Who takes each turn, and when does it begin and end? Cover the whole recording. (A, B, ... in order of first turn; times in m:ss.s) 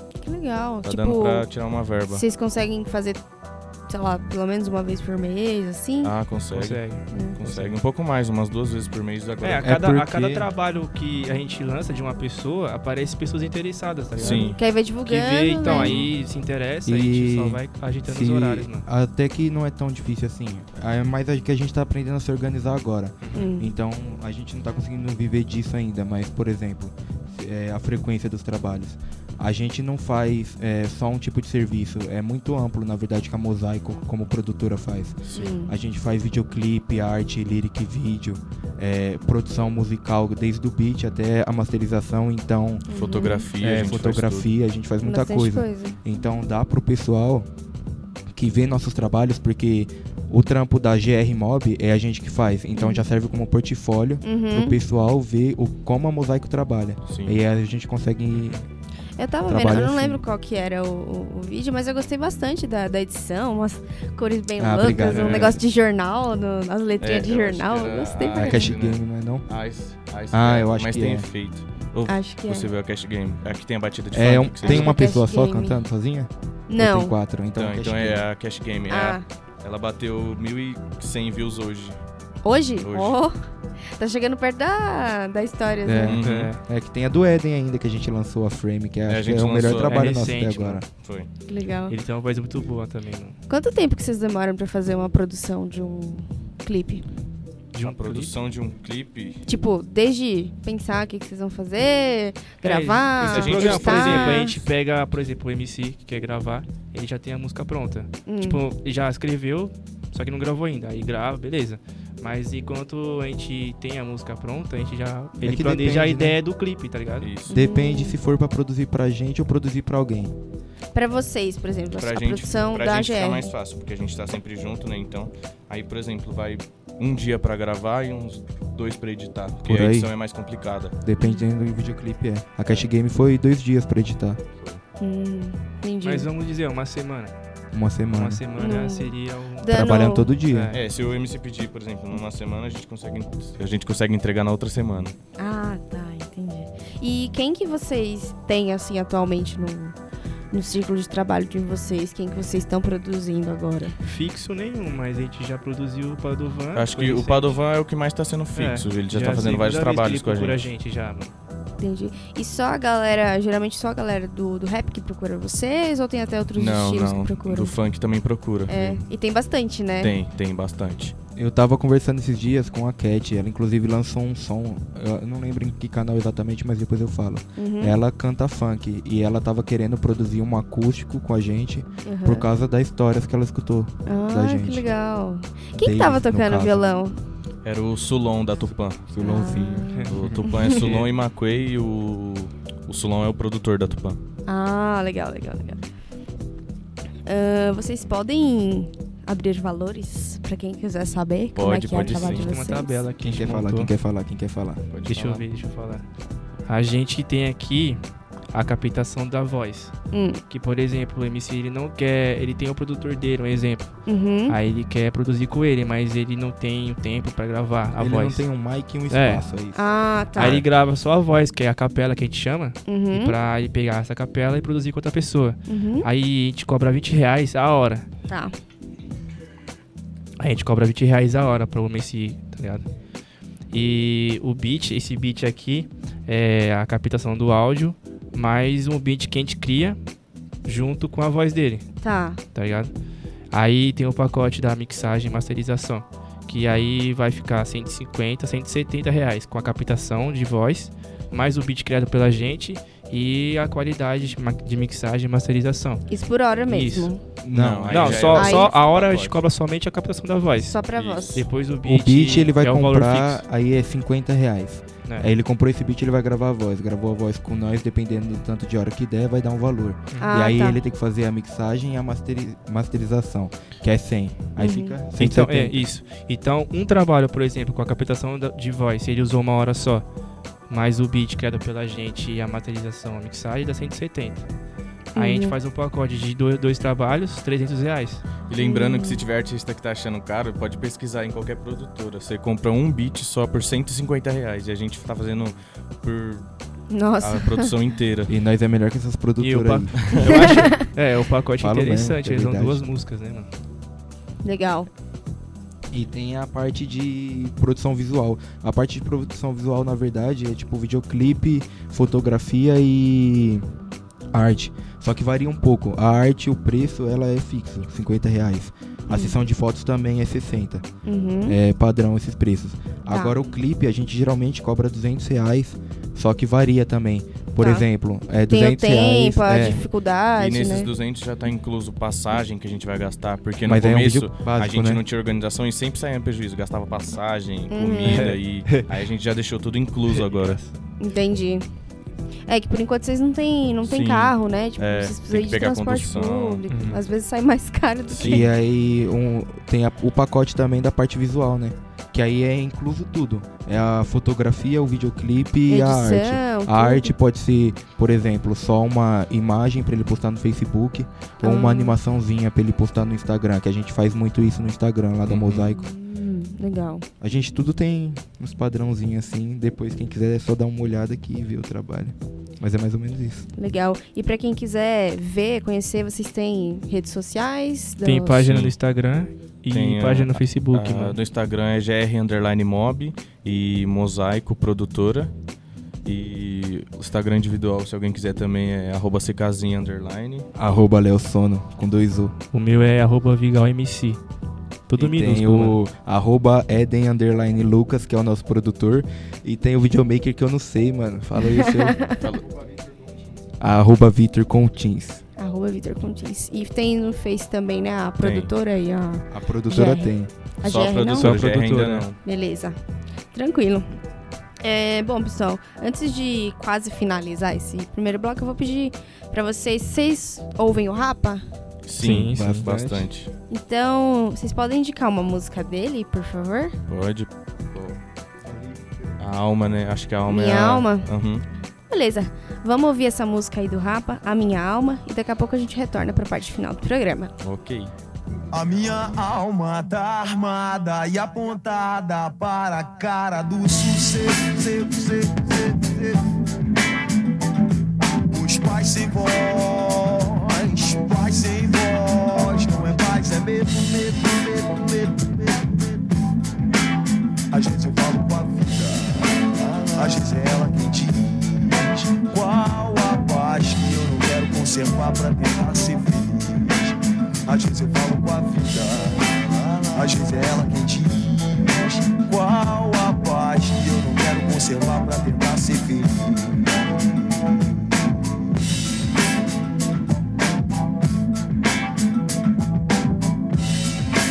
0:00.2-0:01.5 A
0:00.8-0:02.2 B
0:02.1-0:03.2 A
0:03.9-0:06.1 A
0:06.0-0:09.7 B
0:06.5-0:07.8 C
0:07.1-0:07.4 A
0:09.4-0:18.8 C
0:09.6-0:10.5 D
0:14.2-0:14.6 B
0:14.2-0:16.0 A
0:15.7-0:16.1 B
0:16.8-0:42.8 D
0:23.3-0:23.7 A
0:35.2-0:35.5 B
0:35.3-0:35.7 A
0:42.9-0:43.5 A
0:42.9-0:44.5 B
0:43.6-0:47.5 D
0:45.0-0:46.0 A
0:48.3-0:58.6 D
0:52.8-0:53.0 A
0:54.2-0:54.8 A
0:57.0-0:57.4 B
0:58.3-0:58.6 C
0:59.2-1:08.7 A
0:59.5-1:00.2 D
1:04.6-1:05.6 D
1:05.0-1:05.5 C
1:07.0-1:15.0 B
1:08.3-1:09.5 D
1:10.3-1:11.3 D
1:12.1-1:12.7 A
1:14.1-1:18.2 D
1:14.6-1:15.8 A
1:16.7-1:17.1 A
1:17.6-1:22.0 B
1:18.9-1:19.2 A
1:22.4-1:23.3 A
1:22.8-1:23.2 B
1:24.0-1:26.2 A
1:25.8-1:30.8 D
1:26.0-1:26.5 B
1:26.2-1:26.6 C
1:29.1-1:30.0 B
1:29.8-1:30.8 C
1:31.0-1:31.3 B
1:31.5-1:32.0 A
1:31.9-1:33.4 C
1:33.5-1:37.0 A
1:37.7-1:38.4 C
1:37.8-1:39.4 B
1:39.5-1:44.6 A
1:42.6-1:57.3 C
1:43.2-1:44.5 B
1:48.2-1:48.6 A
1:55.4-1:56.4 D
1:57.2-1:57.6 B
1:57.5-1:58.2 A
1:57.5-2:00.3 D
2:00.9-2:03.5 A
2:02.0-2:11.0 B
2:09.6-2:10.1 D
2:11.0-2:14.4 D
2:11.2-2:11.4 A
2:15.0-2:16.3 A
2:16.0-2:17.3 C
2:17.7-2:18.4 D
2:18.1-2:19.7 C
2:18.6-2:20.3 A
2:19.6-2:20.7 D
2:20.5-2:20.8 C
2:20.7-2:25.1 B
2:25.4-2:29.9 A
2:30.5-2:34.0 A
2:34.0-2:37.6 C
2:36.7-2:40.7 B
2:38.5-2:41.3 C
2:41.8-2:47.8 A
2:46.5-2:49.0 B
2:48.7-2:50.2 A
2:50.0-2:51.1 B
2:51.4-3:04.9 D
2:57.6-2:58.0 A
3:02.0-3:02.4 A
3:04.1-3:07.2 A
3:05.7-3:06.8 D
3:07.6-3:09.0 B
3:09.1-3:10.0 D
3:09.2-3:10.9 A
3:09.9-3:11.1 C
3:10.1-3:14.2 B
3:14.5-3:15.8 A
3:17.2-3:23.0 A
3:21.5-3:22.5 B
3:22.0-3:23.9 C
3:23.2-3:24.8 D
3:24.9-3:25.4 B
3:25.1-3:26.0 C
3:26.6-3:28.0 C
3:28.5-3:29.9 C
3:30.1-3:30.4 A
3:30.5-3:38.4 C
3:34.0-3:34.6 A
3:38.0-3:39.8 D
3:39.1-3:39.4 C
3:39.7-3:40.6 A
3:40.4-3:48.1 C
3:42.8-3:43.4 A
3:45.7-3:46.1 A
3:48.3-3:48.5 A
3:50.4-3:52.8 C
3:53.7-4:00.0 C
4:00.6-4:01.9 C
4:02.0-4:02.4 A
4:02.5-4:02.9 C
4:03.5-4:16.0 C
4:16.1-4:17.2 A
4:16.7-4:17.1 C
4:17.4-4:18.4 D
4:17.5-4:19.4 B
4:17.9-4:20.8 C
4:18.3-4:18.7 A
4:20.6-4:21.4 A
4:20.9-4:21.4 B
4:21.3-4:23.4 C
4:21.8-4:35.8 D
4:30.2-4:30.8 A
4:34.6-4:35.0 A
4:35.2-4:40.0 C
4:40.7-4:44.5 C
4:45.1-4:45.6 A
4:45.2-4:48.2 C
4:48.5-4:56.4 B
4:48.6-4:49.2 A
4:56.9-4:57.7 A
4:57.2-4:58.3 B
4:58.3-5:00.3 D
4:59.4-5:03.5 C
5:00.0-5:00.3 B
5:00.3-5:00.7 A
5:01.6-5:02.8 D
5:04.4-5:04.9 A
5:05.9-5:13.6 D
5:14.3-5:20.8 D
5:19.1-5:19.4 A
5:21.0-5:21.6 A
5:21.4-5:29.9 D
5:23.1-5:23.4 A
5:27.6-5:27.8 A
5:28.5-5:30.9 A
5:30.4-5:40.6 B
5:33.6-5:35.0 D
5:37.7-5:38.3 A
5:38.1-5:38.9 C
5:40.3-5:40.7 C
5:41.0-5:41.6 A
5:42.5-5:48.4 A
5:43.8-5:46.6 B
5:46.7-5:47.0 C
5:48.1-5:48.5 B
5:48.2-6:05.9 D
5:55.7-5:57.1 A
6:01.4-6:02.0 A
6:05.2-6:05.7 B
6:05.7-6:07.0 A
6:07.2-6:13.5 D
6:13.6-6:18.4 A
6:18.0-6:21.2 C
6:18.4-6:18.7 B
6:19.7-6:25.3 B
6:26.0-6:30.5 B
6:30.5-6:32.3 D
6:32.5-6:34.2 C
6:34.9-6:35.8 C
6:35.0-6:42.0 D
6:41.6-6:42.2 A
6:43.6-6:45.2 D
6:45.4-6:51.4 A
6:48.2-6:48.5 B
6:49.3-6:50.3 D
6:50.6-6:52.2 B
6:51.2-6:52.0 C
6:52.2-6:52.8 A
6:53.3-6:53.9 A
6:54.6-7:01.4 A
7:01.8-7:03.3 B
7:02.0-7:02.8 C
7:02.3-7:03.1 D
7:03.5-7:06.7 A
7:06.9-7:08.0 B
7:09.2-7:11.4 B
7:10.2-7:11.1 A
7:11.9-7:17.3 A
7:17.4-7:17.9 B
7:18.5-7:26.2 E
7:28.3-7:36.0 E
7:37.5-7:47.0 E
7:47.5-7:57.7 E